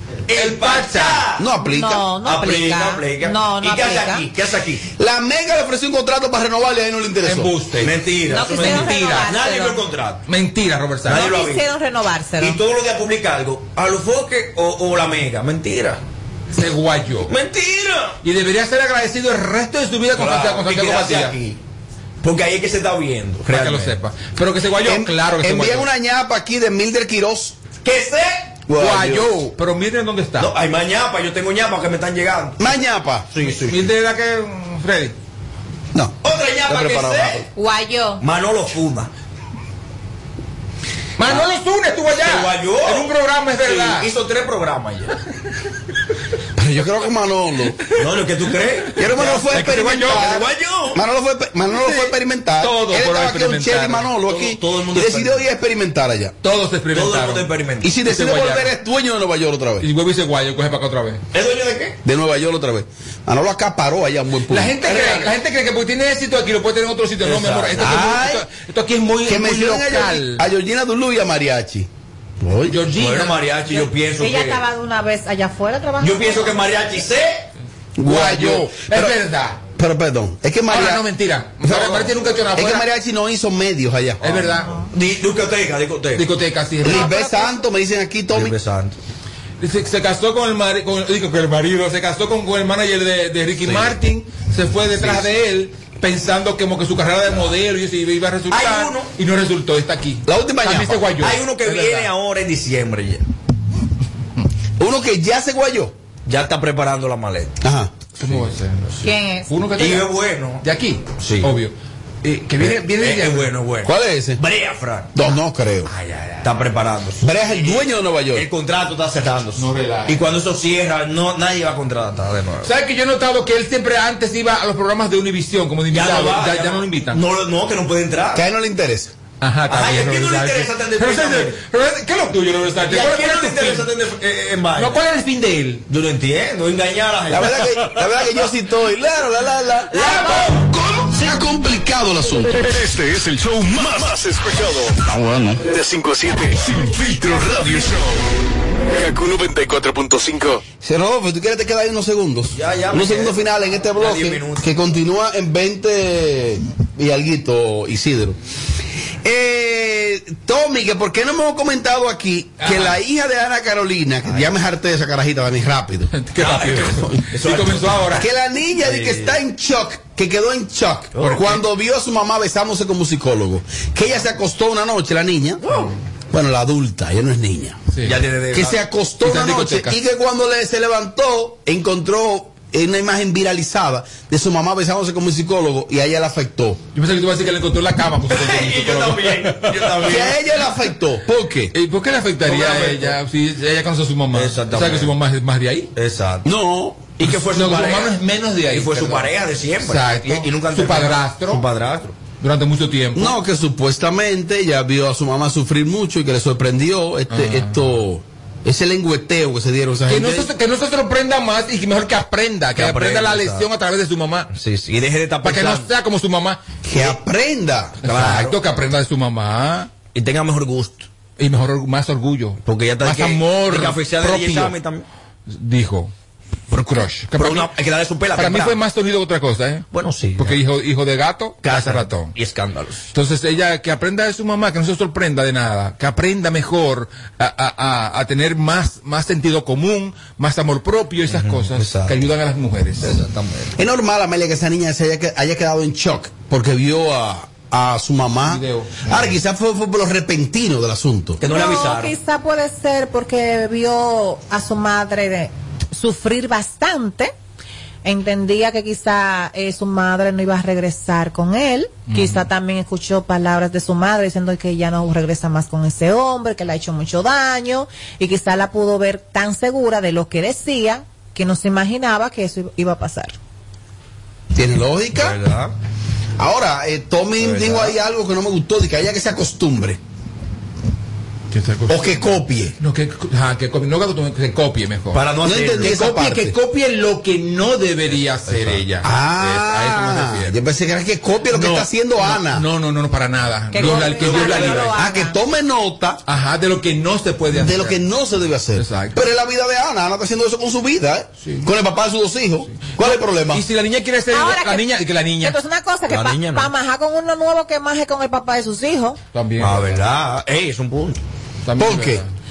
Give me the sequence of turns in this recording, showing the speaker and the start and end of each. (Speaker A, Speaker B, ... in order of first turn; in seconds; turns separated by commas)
Speaker A: 0.3-1.4, Speaker B: 0.3-1.3, Speaker C: 1.4-2.1, Speaker D: 1.6-4.3, Speaker A: 2.2-4.8, Speaker C: 5.0-7.5, Speaker B: 7.2-9.4, Speaker A: 7.8-10.2, Speaker D: 8.3-9.8, Speaker B: 10.3-11.3, Speaker A: 11.0-11.7, Speaker D: 11.1-12.6, Speaker A: 12.4-16.0, Speaker B: 16.5-17.3, Speaker A: 17.3-18.1, Speaker B: 18.2-21.4, Speaker A: 20.1-21.6, Speaker A: 22.2-23.9, Speaker B: 23.5-25.9, Speaker C: 24.8-27.6, Speaker A: 27.8-29.2, Speaker C: 28.7-29.0, Speaker B: 28.8-30.5, Speaker A: 30.4-32.6, Speaker C: 32.6-33.3, Speaker A: 33.3-33.9, Speaker B: 33.4-35.1, Speaker C: 35.9-37.4, Speaker A: 36.2-37.4, Speaker D: 37.5-38.2, Speaker A: 38.2-39.1, Speaker B: 41.2-44.1, Speaker A: 42.1-43.1, Speaker A: 43.6-45.1, Speaker C: 46.6-47.9, Speaker A: 48.0-51.0, Speaker C: 49.0-56.3, Speaker B: 49.0-50.4, Speaker B: 51.8-54.1, Speaker A: 54.2-55.4, Speaker B: 56.4-57.5, Speaker A: 56.9-57.9, Speaker C: 57.8-59.9, Speaker B: 58.0-58.7, Speaker B: 59.8-61.2, Speaker A: 61.3-62.0, Speaker C: 62.0-64.8, Speaker B: 64.5-70.4, Speaker A: 64.8-65.3, Speaker A: 67.2-67.9, Speaker C: 67.8-68.4, Speaker C: 69.3-71.9, Speaker C: 72.4-72.8, Speaker B: 72.7-73.5, Speaker A: 72.9-74.6, Speaker D: 73.7-76.6, Speaker A: 76.0-77.4, Speaker C: 78.0-79.1, Speaker B: 78.0-79.6, Speaker C: 79.7-81.0, Speaker B: 80.7-82.9, Speaker C: 81.6-84.4, Speaker B: 84.2-84.7, Speaker A: 84.9-86.3, Speaker B: 86.1-87.1, Speaker D: 86.8-87.6, Speaker C: 86.8-88.5, Speaker A: 88.3-89.0, Speaker B: 89.6-102.1, Speaker A: 93.6-94.0, Speaker A: 94.9-95.3, Speaker A: 98.5-99.1, Speaker C: 100.3-101.1, Speaker A: 101.2-103.2, Speaker C: 104.8-105.9, Speaker A: 106.2-107.5, Speaker C: 107.6-107.9, Speaker B: 108.2-113.5, Speaker A: 108.3-109.1, Speaker D: 109.0-109.5, Speaker A: 109.8-110.6, Speaker A: 111.2-111.5, Speaker A: 112.6-115.1, Speaker C: 113.8-114.4, Speaker C: 115.1-115.9, Speaker B: 115.9-116.6, Speaker A: 116.4-122.7, Speaker C: 117.2-118.5, Speaker B: 119.5-120.2, Speaker B: 122.6-127.2, Speaker A: 125.9-128.4, Speaker C: 128.3-129.1, Speaker B: 129.4-133.9, Speaker A: 129.7-131.6, Speaker A: 132.8-135.0, Speaker B: 134.7-135.8, Speaker A: 135.9-137.6, Speaker C: 137.3-142.6, Speaker A: 139.9-140.7, Speaker E: 142.6-148.2, Speaker E: 148.9-150.6, Speaker C: 150.8-158.4, Speaker A: 152.5-153.4, Speaker A: 154.0-154.7, Speaker C: 159.2-166.2, Speaker B: 162.6-163.0, Speaker A: 164.2-164.5, Speaker B: 166.1-168.2, Speaker A: 166.3-168.2, Speaker C: 168.2-175.6, Speaker A: 168.8-169.3, Speaker A: 171.2-171.4, Speaker B: 171.2-171.6, Speaker A: 175.6-175.9, Speaker B: 175.7-175.9, Speaker C: 176.3-177.9, Speaker B: 177.9-178.2, Speaker A: 178.0-178.8, Speaker C: 178.5-186.8, Speaker B: 179.2-179.9, Speaker B: 186.9-190.3, Speaker A: 188.3-190.4, Speaker C: 190.1-191.7, Speaker B: 191.7-195.9, Speaker A: 192.4-193.2, Speaker A: 194.3-195.1, Speaker A: 195.9-196.5, Speaker C: 196.4-197.1, Speaker A: 197.2-198.1, Speaker B: 197.2-201.7, Speaker A: 198.7-202.1, Speaker B: 202.4-203.4, Speaker C: 203.2-210.5, Speaker B: 207.3-207.9, Speaker B: 210.1-214.5, Speaker A: 212.7-213.7, Speaker A: 214.5-215.9, Speaker B: 215.4-216.6, Speaker C: 216.9-218.1, Speaker B: 218.0-219.9, Speaker A: 218.0-218.6, Speaker A: 220.1-221.1, Speaker B: 221.4-224.8, Speaker A: 222.7-225.0, Speaker B: 225.5-226.1, Speaker B: 226.7-227.7, Speaker A: 227.3-228.8, Speaker B: 228.3-232.3, Speaker A: 229.9-230.6, Speaker A: 231.6-233.1, Speaker B: 233.1-243.2, Speaker A: 241.3-242.2, Speaker A: 243.0-243.7, Speaker C: 243.8-251.4, Speaker B: 248.5-249.1, Speaker A: 251.4-252.1, Speaker D: 251.4-257.3, Speaker D: 258.0-273.3, Speaker B: 262.1-262.4, Speaker C: 274.5-275.4, Speaker A: 275.1-275.7, Speaker C: 276.4-280.0, Speaker A: 277.4-277.9, Speaker B: 281.5-290.5, Speaker C: 281.9-282.7, Speaker A: 285.1-286.0, Speaker C: 285.4-286.5, Speaker A: 288.5-288.8, Speaker C: 289.0-292.6, Speaker B: 291.5-294.9, Speaker D: 293.7-295.4, Speaker C: 293.9-296.2, Speaker B: 296.2-298.0, Speaker C: 297.6-303.6, Speaker B: 298.8-299.1, Speaker B: 301.4-301.6, Speaker B: 302.7-305.6, Speaker D: 304.3-304.8, Speaker D: 305.4-309.2, Speaker A: 306.1-306.7, Speaker B: 309.3-310.0, Speaker A: 309.6-311.2, Speaker B: 311.6-312.3, Speaker C: 311.8-312.2